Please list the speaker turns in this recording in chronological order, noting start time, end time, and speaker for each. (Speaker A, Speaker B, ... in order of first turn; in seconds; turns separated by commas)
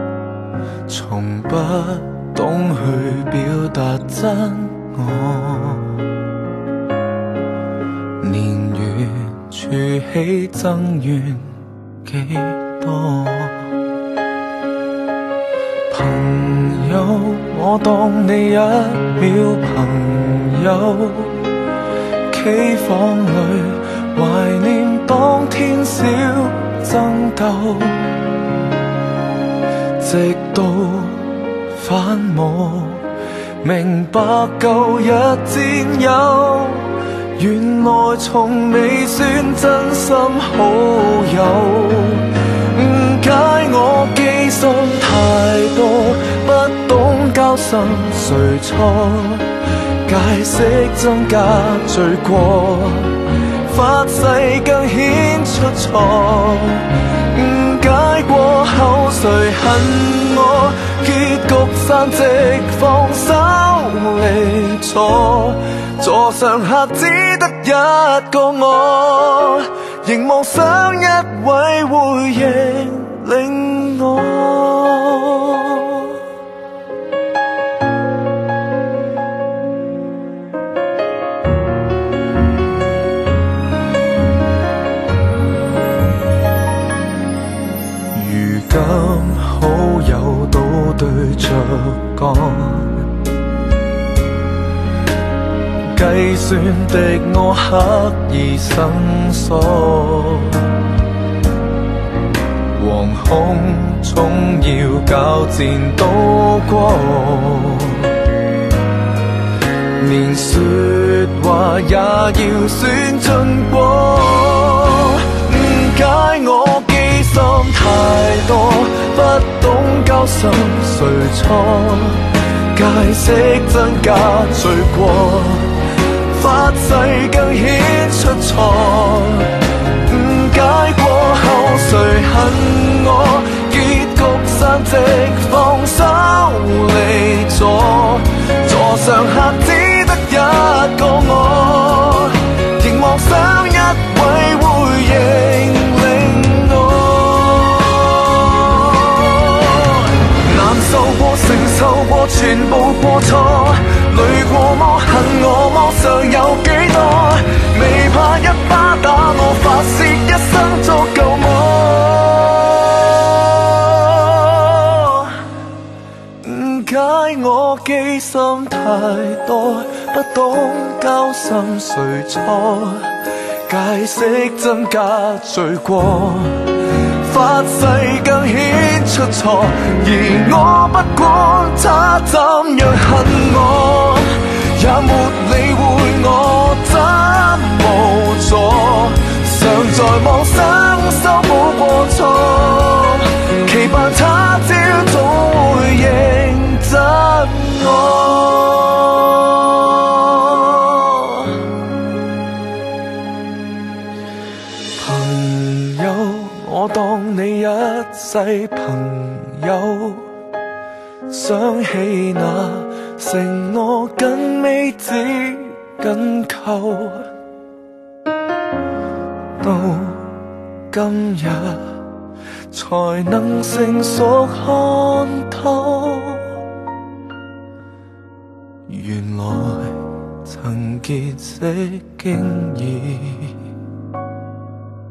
Speaker A: 0.9-6.0, Speaker A: 8.2-13.7, Speaker A: 15.9-21.5, Speaker A: 22.3-28.2, Speaker A: 30.0-33.1, Speaker A: 33.6-49.5, Speaker A: 50.0-76.2, Speaker A: 88.1-93.1, Speaker A: 95.9-100.7, Speaker A: 102.7-108.1, Speaker A: 110.0-165.4, Speaker A: 166.4-201.5, Speaker A: 205.0-210.3, Speaker A: 211.3-217.3, Speaker A: 219.6-220.4, Speaker A: 220.9-222.0, Speaker A: 222.7-226.5, Speaker A: 228.9-233.6